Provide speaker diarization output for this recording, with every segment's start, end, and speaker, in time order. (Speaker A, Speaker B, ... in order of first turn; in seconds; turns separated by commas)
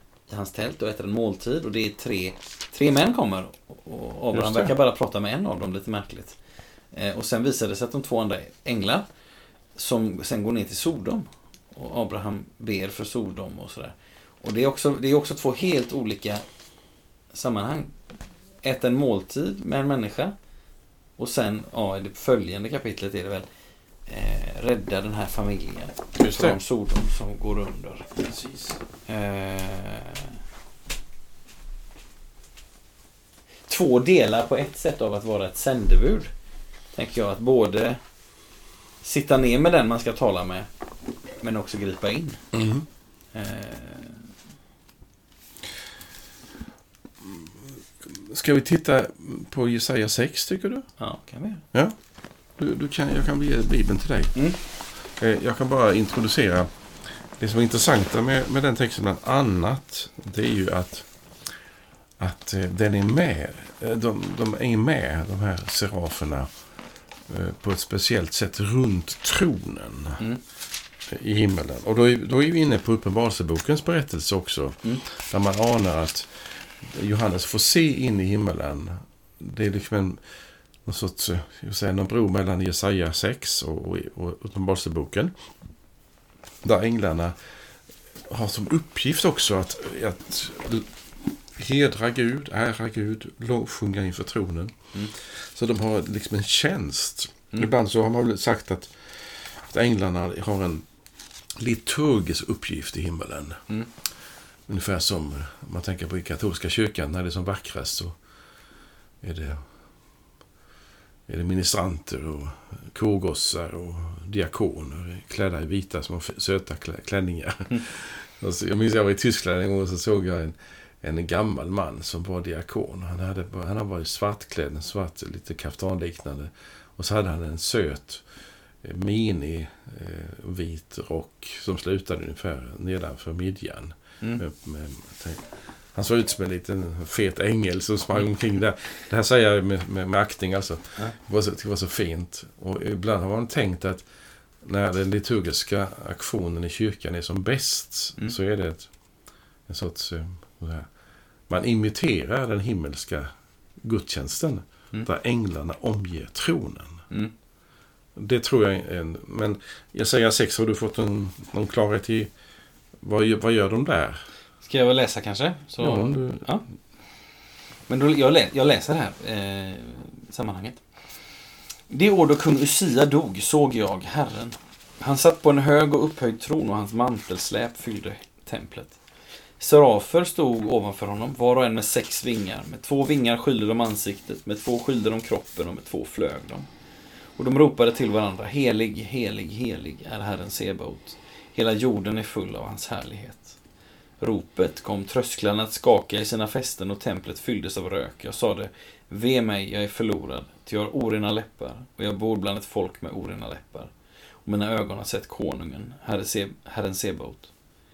Speaker A: 0.3-6.4, Speaker B: 4.3-4.7, Speaker A: 6.9-9.1, Speaker A: 9.8-16.4, Speaker A: 17.3-17.9, Speaker A: 18.6-20.4, Speaker A: 21.2-23.5, Speaker A: 24.1-28.1, Speaker B: 26.2-26.6, Speaker B: 28.2-28.8, Speaker A: 29.1-30.4, Speaker A: 33.7-36.3, Speaker A: 37.0-38.0, Speaker A: 39.0-40.7, Speaker A: 41.4-42.5, Speaker B: 42.5-42.9, Speaker A: 43.3-44.3, Speaker B: 47.2-50.9, Speaker A: 51.0-51.6, Speaker B: 52.6-54.4, Speaker B: 55.1-56.7, Speaker B: 57.4-61.1, Speaker B: 62.2-66.5, Speaker B: 67.3-70.2, Speaker B: 71.1-80.2, Speaker B: 80.8-85.4, Speaker B: 86.6-87.4, Speaker B: 88.3-90.9, Speaker B: 91.5-100.8, Speaker B: 101.6-103.6, Speaker B: 104.7-108.2, Speaker B: 109.2-109.7, Speaker B: 111.3-128.2, Speaker B: 128.8-144.1, Speaker B: 144.6-148.9, Speaker B: 149.7-150.9, Speaker B: 151.5-157.0, Speaker B: 158.2-162.3, Speaker B: 163.0-164.2, Speaker A: 164.6-166.7, Speaker B: 165.8-166.4, Speaker A: 167.9-170.8, Speaker A: 171.9-179.0, Speaker A: 179.6-186.7, Speaker A: 187.4-193.6, Speaker A: 194.2-203.9, Speaker A: 204.5-207.5